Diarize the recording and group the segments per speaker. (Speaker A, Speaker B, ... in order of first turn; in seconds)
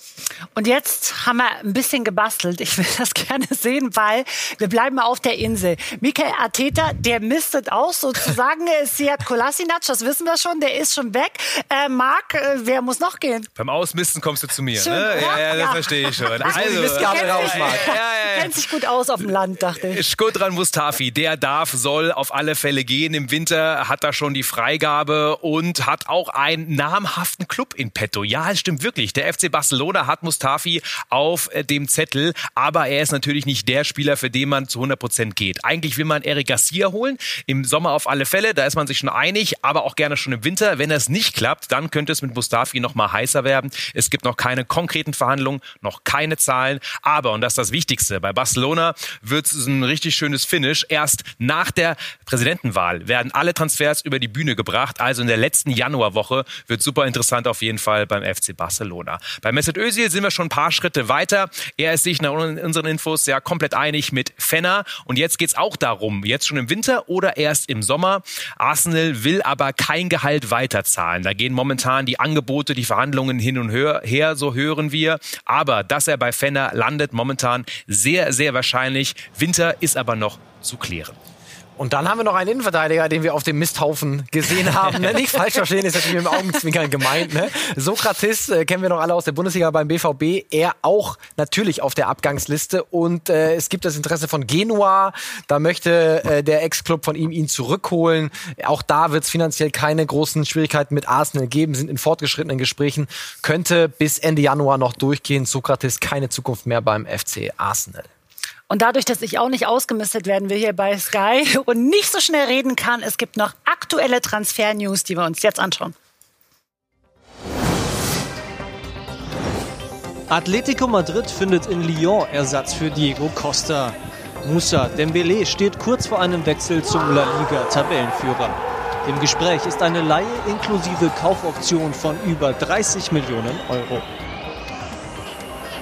Speaker A: 0.6-13.5, 14.8-20.1, 108.7-115.9
Speaker B: 13.6-18.6, 19.8-81.2
Speaker C: 16.4-18.0, 81.8-108.1
Speaker D: 120.3-134.1